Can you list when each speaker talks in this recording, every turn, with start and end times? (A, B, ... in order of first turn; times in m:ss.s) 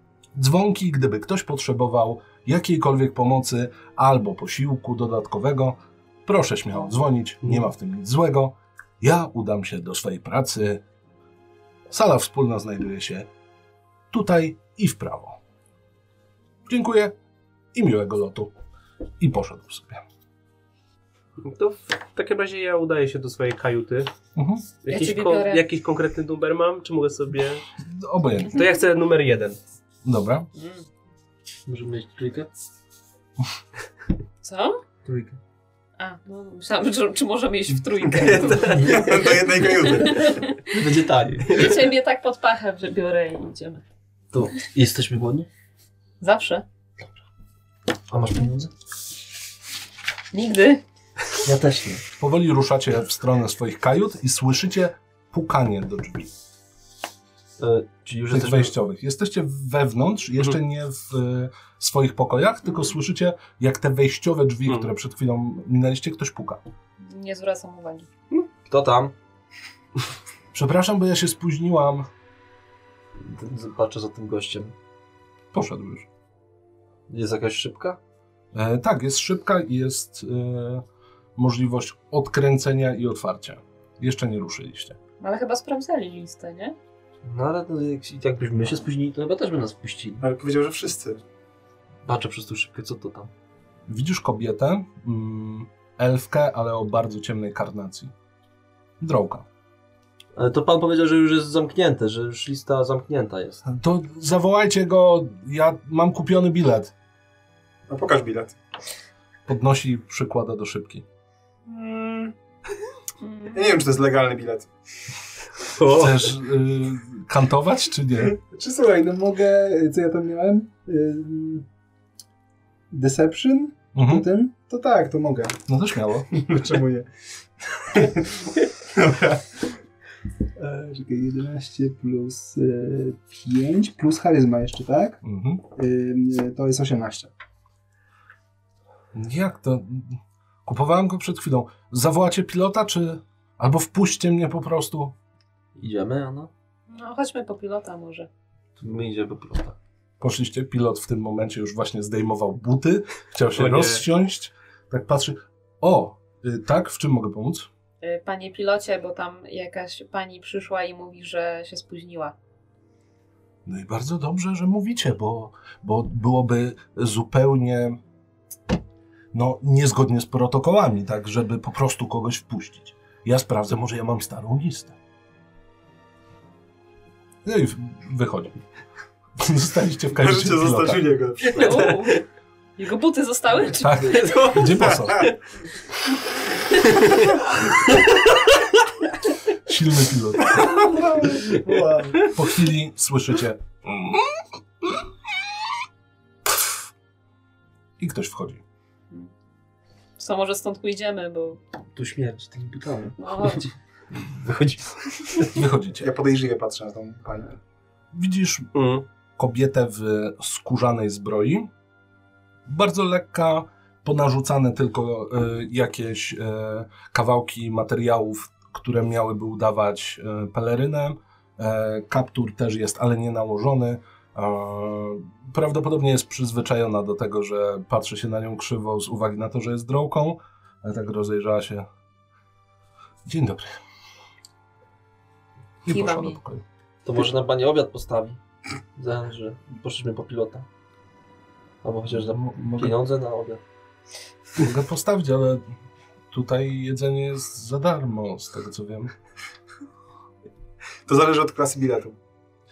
0:00.3-0:10.8 A
0:11.9-0:13.3 A
0:14.1-0:15.4 A
0:16.7-0:17.1 A
0:17.7-0:18.5 A
0:19.2-0:20.0 A
0:21.4-0:24.1 B
0:24.3-0:24.7 A
0:24.8-0:27.6 B
0:24.9-0:25.6 C
0:27.8-0:28.6 A
0:28.5-0:29.6 B
0:30.0-0:30.5 A
0:30.6-0:30.9 C
0:31.7-0:32.5 D
0:34.4-0:34.8 C
0:35.0-0:35.4 D
0:36.0-0:40.8 C
0:38.1-0:40.4 E
0:38.4-0:39.4 D
0:40.0-0:41.7 D
0:41.4-0:43.8 C
0:44.3-0:45.5 D
0:46.2-0:46.6 C
0:48.1-0:48.7 D
0:50.3-0:50.8 C
0:51.4-0:52.0 D
0:52.2-0:56.3 A
0:57.6-0:58.7 D
0:58.3-1:06.6 A
1:07.0-1:08.1 C
1:08.7-1:09.1 D
1:10.5-1:12.1 A
1:13.2-1:14.7 D
1:15.5-1:16.1 A
1:17.1-1:18.0 D
1:18.5-1:20.8 A
1:21.4-1:25.0 A
1:25.2-1:26.8 C
1:27.2-1:30.2 D
1:30.2-1:31.2 E
1:32.0-1:33.3 D
1:33.9-1:38.1 A
1:39.0-1:39.5 A
1:40.4-1:43.6 D
1:43.6-1:46.9 A
1:47.9-1:48.5 E
1:49.4-1:51.0 A
1:51.7-1:52.3 E
1:53.2-1:53.7 C
1:53.5-1:54.7 E
1:55.7-1:56.3 B
1:55.9-1:58.4 A
1:58.3-2:01.6 E
2:02.9-2:05.6 E
2:03.9-2:04.3 A
2:05.7-2:06.3 A
2:06.3-2:07.1 E
2:07.7-2:09.6 E
2:10.6-2:15.2 E
2:15.2-2:15.6 A
2:15.7-2:17.3 E
2:19.1-2:25.1 A
2:25.8-2:26.5 D
2:26.9-2:28.3 C
2:28.8-2:29.8 D
2:30.2-2:37.7 A
2:33.6-2:34.0 B
2:38.0-2:42.3 C
2:43.6-2:48.0 A
2:49.3-2:55.0 A
2:57.4-2:58.6 A
2:59.4-3:01.0 A
3:00.2-3:01.9 E
3:01.4-3:02.2 C
3:01.6-3:02.1 B
3:02.8-3:04.4 C
3:03.8-3:05.3 A
3:04.0-3:05.3 B
3:09.6-3:11.0 A
3:10.7-3:12.3 E
3:12.2-3:15.0 A
3:18.0-3:18.6 A
3:20.2-3:21.6 C
3:21.9-3:25.5 D
3:23.2-3:23.7 C
3:25.5-3:26.1 A
3:26.0-3:27.6 E
3:28.1-3:28.7 A
3:28.7-3:29.0 B
3:29.4-3:31.7 A
3:32.6-3:51.8 A
3:53.2-3:53.7 A
3:55.8-3:56.6 A
3:55.9-3:56.4 C
3:57.0-3:58.4 D
3:59.0-4:00.7 D
4:01.8-4:03.6 D
4:02.1-4:03.0 A
4:04.6-4:05.6 A
4:06.3-4:09.1 A
4:11.0-4:12.2 E